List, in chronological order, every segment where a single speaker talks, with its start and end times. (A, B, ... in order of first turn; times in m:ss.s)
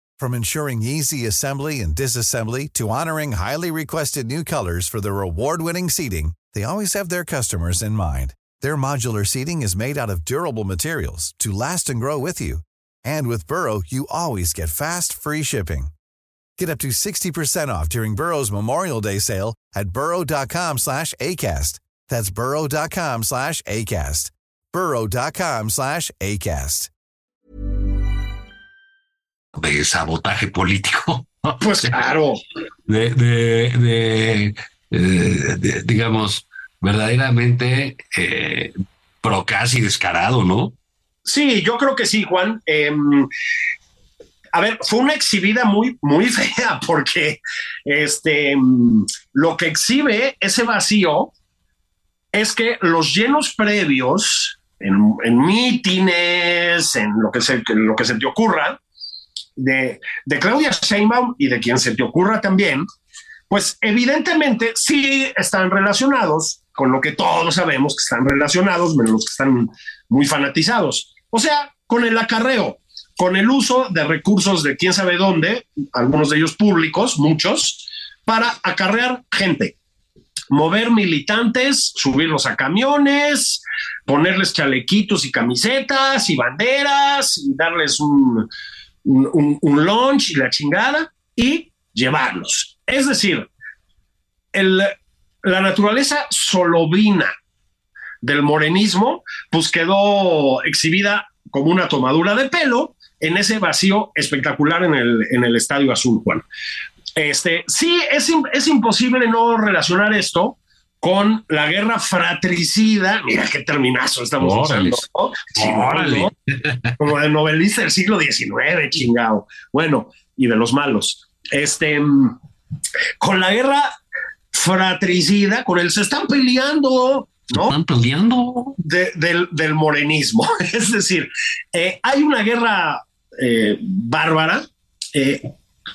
0:00.2-0:15.9 A
0:16.6-0:26.9 A
0:29.5-0:31.9 B
0:31.6-0:32.4 C
0:32.9-0:40.8 B
0:41.2-0:43.3 C
0:44.5-0:51.3 C
0:52.3-0:58.8 C
0:59.6-1:02.8 C
1:03.5-1:19.8 C
1:20.5-1:28.5 C
1:29.0-1:33.5 C
1:34.5-1:37.3 C
1:38.2-1:46.4 C
1:47.2-1:56.3 C
1:54.4-1:55.0 B
1:55.5-1:56.9 B
1:57.0-2:02.3 C
2:03.2-2:03.9 C
2:04.5-2:07.8 C
2:07.5-2:08.8 B
2:08.8-2:15.5 C